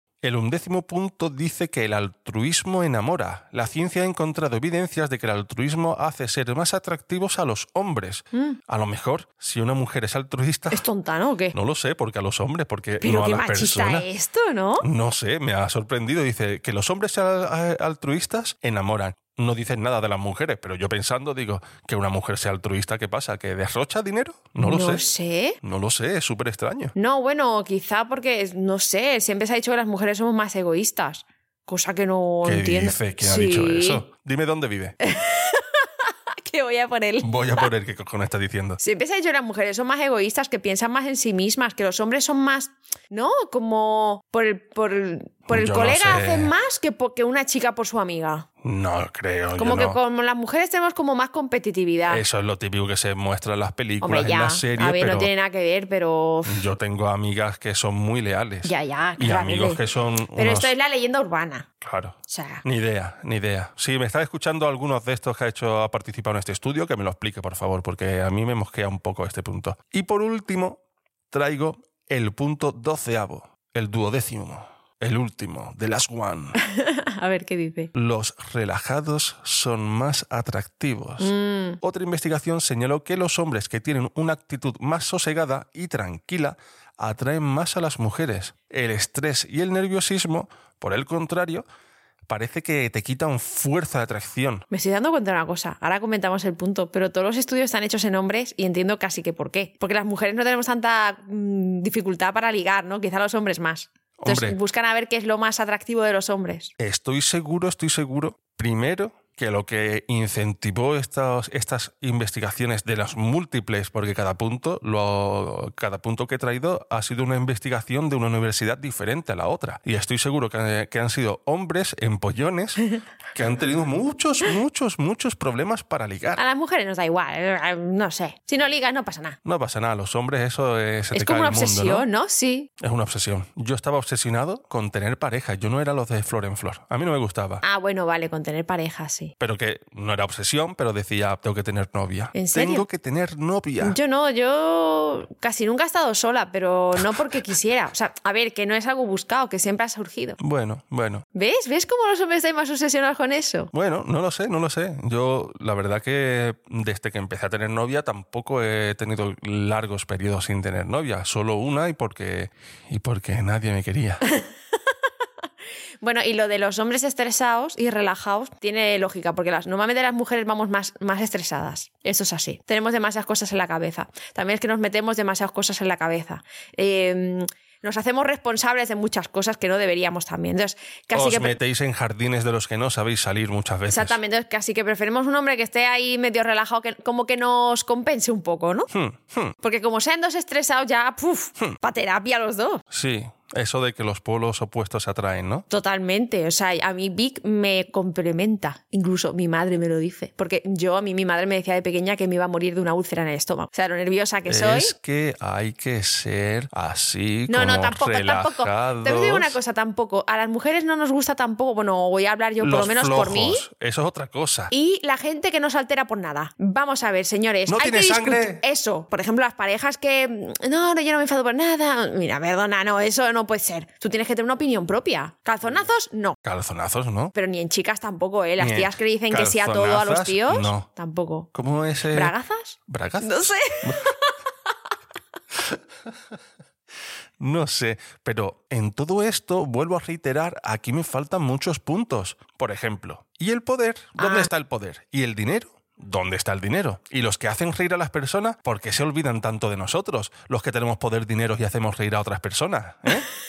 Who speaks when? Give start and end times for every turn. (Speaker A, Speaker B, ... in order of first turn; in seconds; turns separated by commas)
Speaker A: 0.2-10.8, Speaker B: 10.7-11.6, Speaker A: 11.5-14.1, Speaker B: 13.0-14.9, Speaker A: 14.8-25.0, Speaker B: 24.6-25.6, Speaker A: 25.6-26.9, Speaker B: 26.9-34.0, Speaker A: 32.4-34.9, Speaker B: 35.0-37.7, Speaker A: 37.2-38.8, Speaker B: 38.8-48.5, Speaker A: 45.5-46.5, Speaker A: 48.6-50.0, Speaker B: 49.5-52.2, Speaker A: 52.1-55.3, Speaker B: 54.0-56.7, Speaker A: 56.5-60.7, Speaker B: 58.6-59.8, Speaker B: 60.3-61.7, Speaker A: 61.8-76.6, Speaker B: 62.3-62.6, Speaker B: 76.6-77.9, Speaker A: 77.9-91.6, Speaker B: 81.2-81.8, Speaker A: 92.3-94.7, Speaker B: 94.7-106.7, Speaker A: 104.2-104.6, Speaker A: 106.8-126.4, Speaker B: 126.3-129.4, Speaker A: 129.4-132.1, Speaker B: 131.1-132.7, Speaker A: 132.8-137.6, Speaker B: 137.6-139.3, Speaker A: 139.4-144.0, Speaker B: 142.3-142.8, Speaker B: 143.8-150.4, Speaker A: 150.4-151.2, Speaker B: 151.3-153.7, Speaker A: 153.7-164.2, Speaker B: 166.0-181.6, Speaker A: 181.1-184.2, Speaker B: 183.9-188.9, Speaker A: 188.9-189.6, Speaker B: 189.6-192.8, Speaker A: 192.9-195.7, Speaker B: 195.7-204.9, Speaker A: 204.5-209.6, Speaker B: 207.5-213.6, Speaker A: 212.6-214.7, Speaker B: 214.7-226.4, Speaker A: 217.7-218.6, Speaker A: 226.4-227.3, Speaker B: 227.3-231.5, Speaker A: 228.6-230.9, Speaker A: 231.5-232.3, Speaker B: 232.1-234.3, Speaker A: 232.9-234.1, Speaker A: 237.4-253.2, Speaker B: 244.2-244.5